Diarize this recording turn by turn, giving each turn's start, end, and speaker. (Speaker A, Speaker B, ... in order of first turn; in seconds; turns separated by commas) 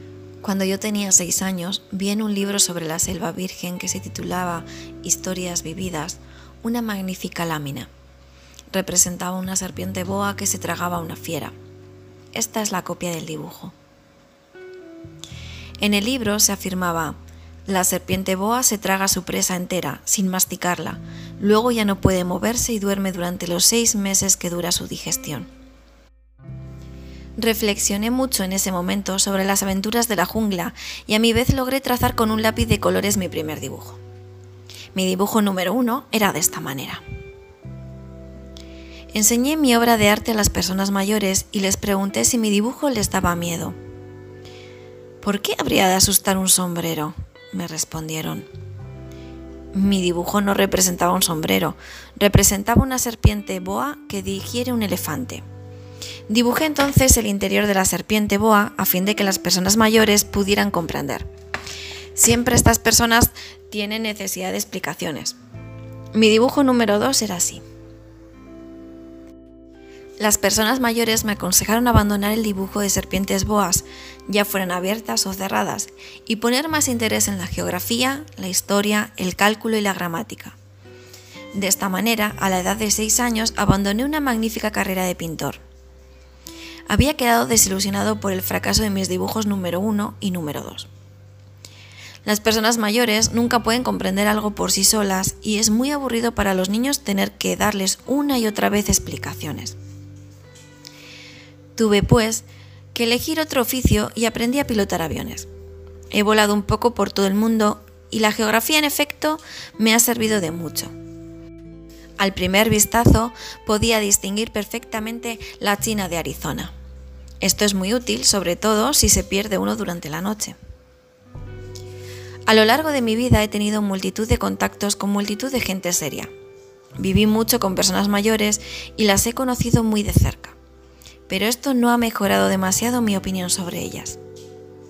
Speaker A: 0.4-7.9, Speaker A: 8.7-11.5, Speaker A: 12.3-13.7, Speaker A: 15.8-25.5, Speaker A: 27.4-34.0, Speaker A: 34.9-37.0, Speaker A: 39.1-43.7, Speaker A: 45.2-48.5, Speaker A: 49.7-55.4, Speaker A: 56.3-61.3, Speaker A: 62.1-65.3, Speaker A: 66.1-67.6, Speaker A: 70.2-80.5, Speaker A: 81.5-85.6, Speaker A: 86.9-90.9, Speaker A: 92.2-99.8, Speaker A: 101.8-105.5, Speaker A: 106.1-110.9, Speaker A: 112.2-116.7, Speaker A: 117.4-120.6, Speaker A: 122.5-126.3, Speaker A: 127.0-130.6, Speaker A: 131.3-134.2